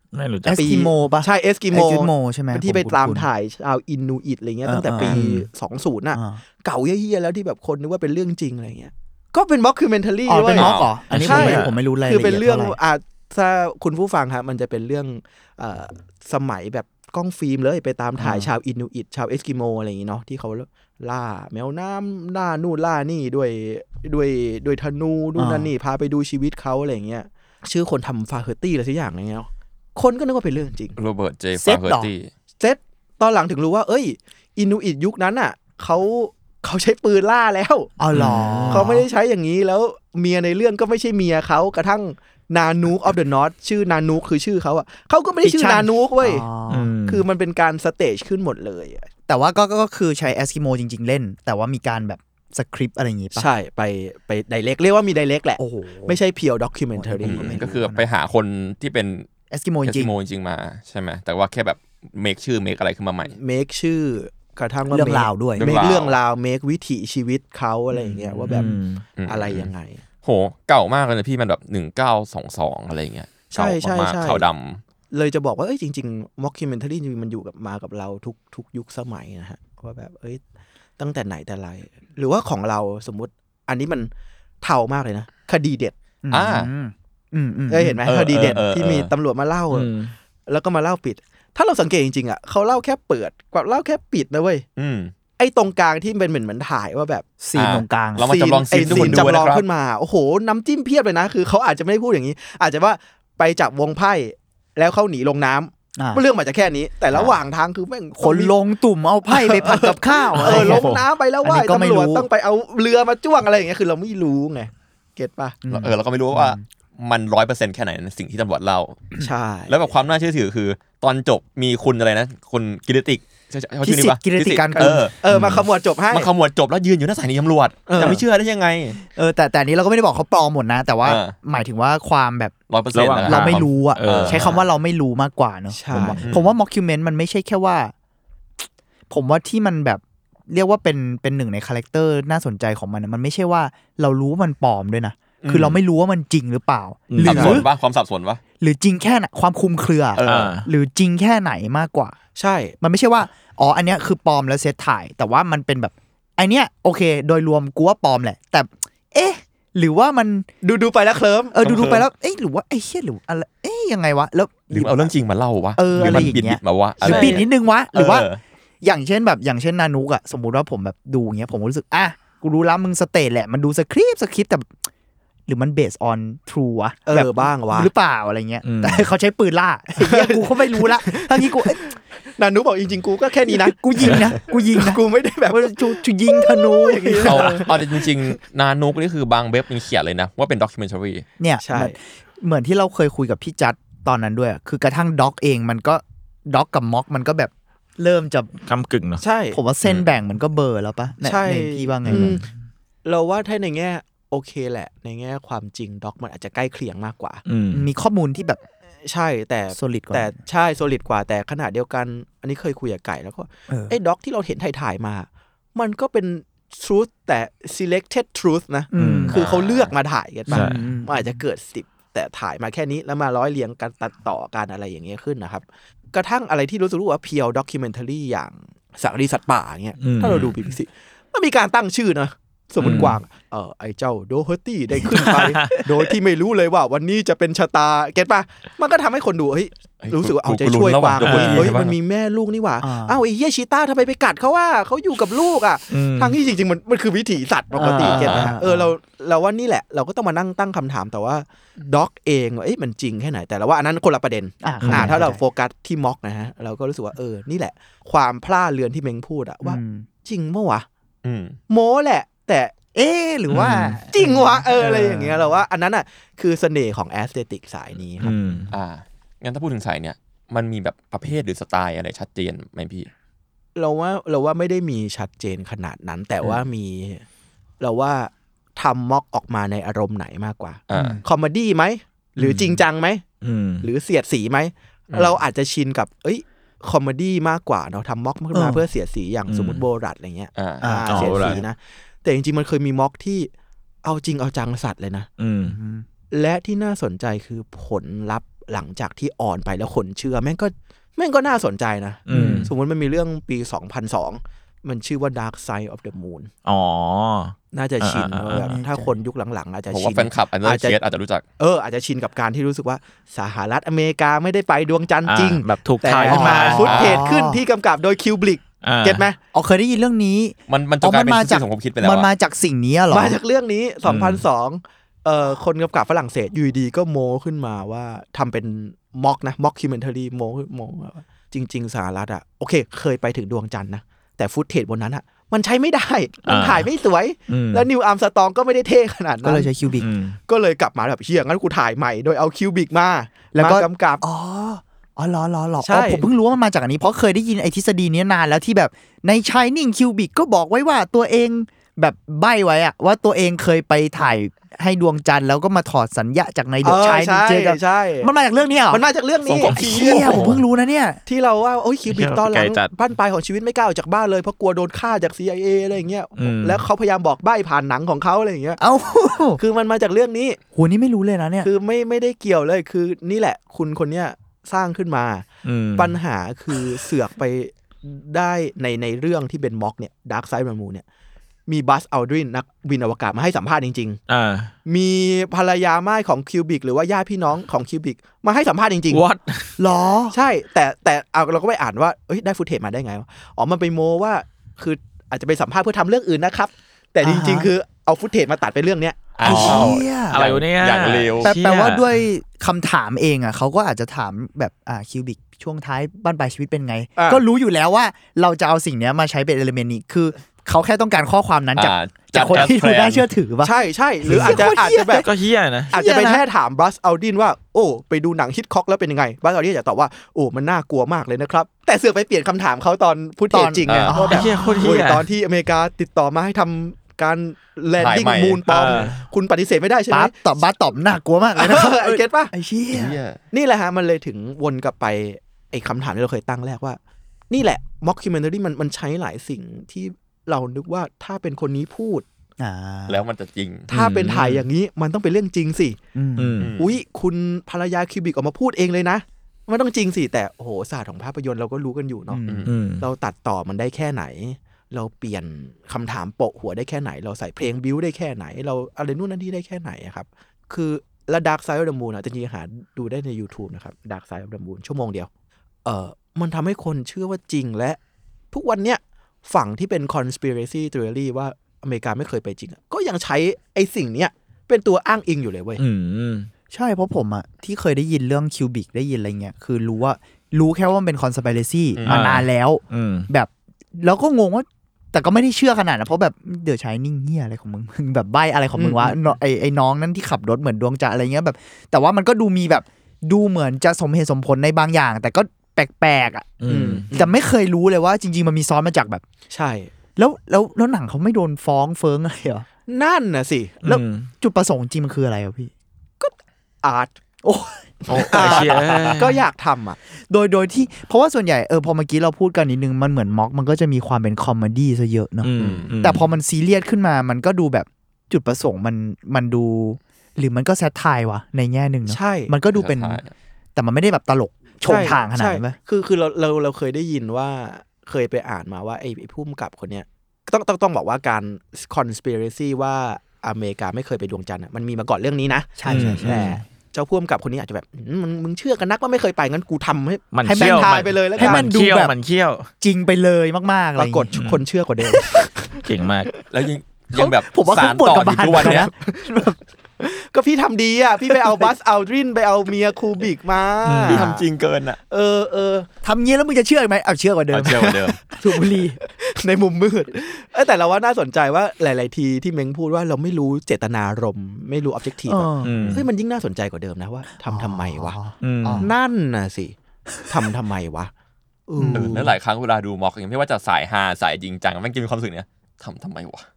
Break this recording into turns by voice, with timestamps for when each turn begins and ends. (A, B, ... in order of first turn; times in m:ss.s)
0:00.1-0:00.7 A
0:00.4-0:03.3 B
0:00.5-0:31.0 C
0:04.6-0:05.3 B
0:05.0-0:05.5 A
0:06.1-0:06.4 B
0:10.3-0:12.8 B
0:10.5-0:11.7 D
0:11.1-0:11.7 A
0:18.2-0:18.5 B
0:25.4-0:25.7 B
0:31.0-0:32.3 D
0:31.6-0:32.1 B
0:32.6-0:37.9 C
0:38.0-0:39.0 B
0:38.1-0:39.0 A
0:38.7-0:46.4 C
0:45.4-0:46.9 B
0:46.7-0:47.2 A
0:47.0-0:49.1 C
0:49.3-0:53.5 B
0:53.3-0:57.7 C
0:55.6-0:56.2 B
0:56.9-0:58.1 B
0:57.2-0:59.3 D
0:59.5-1:00.1 B
0:59.8-1:03.3 D
1:03.2-1:10.0 C
1:04.9-1:05.7 B
1:05.6-1:06.2 D
1:08.5-1:09.0 A
1:09.2-1:09.7 D
1:10.2-1:14.8 D
1:13.5-1:14.4 C
1:15.1-1:20.4 C
1:21.0-1:24.1 C
1:24.6-1:25.9 C
1:26.2-1:28.0 B
1:26.3-1:26.7 D
1:27.7-1:29.9 C
1:28.0-1:29.1 D
1:29.7-1:30.1 A
1:30.5-1:34.6 C
1:34.8-1:35.1 D
1:35.4-1:37.2 C
1:37.4-1:39.3 B
1:37.5-1:39.6 D
1:38.2-1:48.6 C
1:46.0-1:46.2 B
1:48.2-1:52.3 B
1:49.2-1:55.6 C
1:50.4-1:51.0 A
1:55.6-1:56.6 B
1:55.7-2:05.2 D
1:59.2-1:59.7 C
2:03.8-2:05.1 B
2:04.8-2:06.3 C
2:06.1-2:09.0 D
2:07.9-2:08.2 C
2:09.1-2:12.5 B
2:11.0-2:11.3 D
2:12.7-2:14.6 D
2:12.9-2:14.6 A
2:13.2-2:17.9 B
2:15.7-2:16.2 C
2:16.2-2:16.5 D
2:19.1-2:27.7 B
2:25.4-2:25.8 D
2:27.1-2:27.6 A
2:27.2-2:28.4 D
2:28.6-2:32.2 B
2:30.2-2:30.5 D
2:30.3-2:30.7 A
2:32.4-2:32.7 C
2:32.8-2:40.5 B
2:40.6-2:41.6 C
2:41.5-2:45.1 B
2:41.6-2:42.0 D
2:44.7-2:48.4 D
2:45.8-2:48.3 B
2:47.0-2:47.4 C
2:48.8-2:54.7 B
2:55.5-3:01.8 B
2:57.1-2:57.9 C
2:58.6-2:59.1 A
3:00.0-3:08.0 C
3:03.5-3:07.6 B
3:07.2-3:11.2 D
3:11.4-3:18.5 B
3:11.6-3:12.0 C
3:18.6-3:19.2 A
3:19.2-3:19.6 C
3:19.5-3:22.4 B
3:21.2-3:22.4 C
3:23.0-3:27.4 C
3:27.4-3:27.9 A
3:27.7-3:28.6 B
3:29.0-4:20.9 C
3:29.7-3:30.3 B
3:33.7-3:33.9 B
3:38.9-3:39.4 B
3:39.0-3:39.4 A
3:39.3-3:39.9 D
3:40.5-3:41.4 B
3:40.5-3:40.8 A
3:50.0-3:50.5 A
3:52.8-3:53.2 A
3:55.0-3:55.9 A
4:00.0-4:01.9 D
4:01.2-4:01.7 A
4:02.8-4:03.2 B
4:05.9-4:06.4 A
4:07.7-4:08.9 B
4:08.0-4:08.5 D
4:14.6-4:15.4 B
4:14.8-4:15.1 A
4:19.6-4:20.0 B
4:21.2-4:21.6 D
4:21.7-4:22.7 C
4:22.9-4:25.3 B
4:23.5-4:24.0 A
4:24.1-4:28.3 C
4:28.2-4:28.7 A
4:28.7-4:33.1 D
4:33.7-4:37.2 C
4:37.8-4:43.2 C
4:40.9-4:41.2 D
4:40.9-4:41.2 B
4:42.4-4:42.8 A
4:43.4-4:43.9 A
4:43.8-4:53.5 C
4:45.1-4:45.4 D
4:48.5-4:48.8 B
4:49.5-4:49.8 A
4:50.6-4:51.3 D
4:50.8-4:51.6 B
4:51.1-4:51.6 A
4:54.0-4:55.3 C
4:55.4-4:55.8 A
4:55.6-4:56.0 B
4:56.3-5:06.5 C
5:02.3-5:02.7 A
5:02.3-5:02.7 B
5:06.6-5:08.7 A
5:07.7-5:11.0 C
5:08.5-5:09.1 B
5:09.9-5:11.4 D
5:11.6-5:19.4 C
5:15.2-5:16.9 A
5:16.3-5:17.6 B
5:16.8-5:17.2 D
5:18.8-5:19.2 A
5:19.5-5:23.4 B
5:20.7-5:22.3 D
5:23.1-5:39.7 C
5:24.0-5:24.4 A
5:36.4-5:36.9 A
5:37.5-5:37.9 A
5:39.4-5:40.1 B
5:40.0-5:40.4 A
5:40.5-5:44.2 C
5:43.5-5:59.0 B
5:45.8-5:46.3 C
5:56.8-5:58.3 C
5:58.9-5:59.8 C
5:59.5-6:00.5 D
5:59.6-6:00.6 A
5:59.7-6:01.2 B
6:01.2-6:08.8 C
6:02.1-6:02.9 A
6:06.4-6:06.8 A
6:08.8-6:09.6 B
6:09.6-6:10.6 C
6:10.7-6:11.7 B
6:11.6-6:21.0 C
6:15.6-6:16.2 A
6:21.7-6:24.2 C
6:24.3-6:24.7 A
6:24.8-6:29.2 C
6:29.1-6:29.8 A
6:29.8-6:30.4 B
6:30.3-6:39.4 C
6:37.2-6:37.7 B
6:39.4-6:41.5 D
6:39.4-6:40.4 B
6:39.4-6:42.1 A
6:41.4-6:55.3 B
6:47.2-6:47.4 C
6:51.8-6:53.2 D
6:53.6-6:55.3 C
6:54.3-6:55.9 A
6:55.9-6:56.4 B
6:55.9-7:10.4 C
7:03.5-7:05.0 B
7:03.9-7:04.3 D
7:04.3-7:05.3 A
7:08.0-7:08.6 D
7:08.7-7:09.2 A
7:10.1-7:13.2 B
7:11.6-7:12.5 C
7:12.9-7:13.4 D
7:13.5-7:17.0 C
7:17.5-7:22.2 C
7:22.6-7:23.2 B
7:23.1-7:23.9 D
7:23.9-7:24.6 A
7:23.9-7:26.0 C
7:26.1-7:26.7 B
7:26.4-7:26.7 A
7:26.6-7:27.0 D
7:26.8-7:32.4 C
7:32.3-7:32.7 B
7:32.6-7:33.0 A
7:33.0-7:45.3 C
7:45.8-7:48.0 C
7:48.5-7:55.8 C
7:55.8-7:56.5 A
7:56.7-8:16.6 B
8:01.9-8:02.2 D
8:02.1-8:03.3 A
8:08.8-8:09.3 C
8:16.6-8:17.0 A
8:16.6-8:17.4 C
8:17.1-8:19.2 B
8:19.5-8:19.9 C
8:20.2-8:22.6 B
8:22.9-8:24.0 C
8:23.8-8:24.3 A
8:24.4-8:25.7 B
8:26.2-8:27.1 C
8:27.4-8:29.3 B
8:28.0-8:30.0 C
8:28.1-8:29.3 A
8:30.3-8:43.2 B
8:35.4-8:36.2 A
8:35.6-8:36.0 D
8:42.1-8:42.5 C
8:42.7-8:43.3 D
8:43.8-8:45.8 B
8:44.8-9:01.7 C
8:55.8-8:56.6 B
8:55.8-8:56.6 A
9:00.3-9:02.7 A
9:00.4-9:02.1 B
9:02.8-9:04.3 B
9:04.0-9:05.8 C
9:04.3-9:04.6 A
9:05.8-9:06.3 A
9:06.5-9:08.9 D
9:07.1-9:09.6 B
9:08.7-9:09.5 C
9:10.0-9:14.4 C
9:11.3-9:11.6 B
9:13.8-9:14.2 A
9:14.1-9:15.0 D
9:15.1-9:15.9 C
9:16.0-9:19.0 B
9:17.5-9:18.2 D
9:18.3-9:28.2 C
9:25.2-9:25.8 B
9:25.6-9:26.0 A
9:27.4-9:28.9 B
9:28.4-9:28.9 A
9:28.8-9:29.7 C
9:30.3-9:31.1 C
9:31.7-9:32.3 C
9:31.8-9:32.3 B
9:31.9-9:36.4 D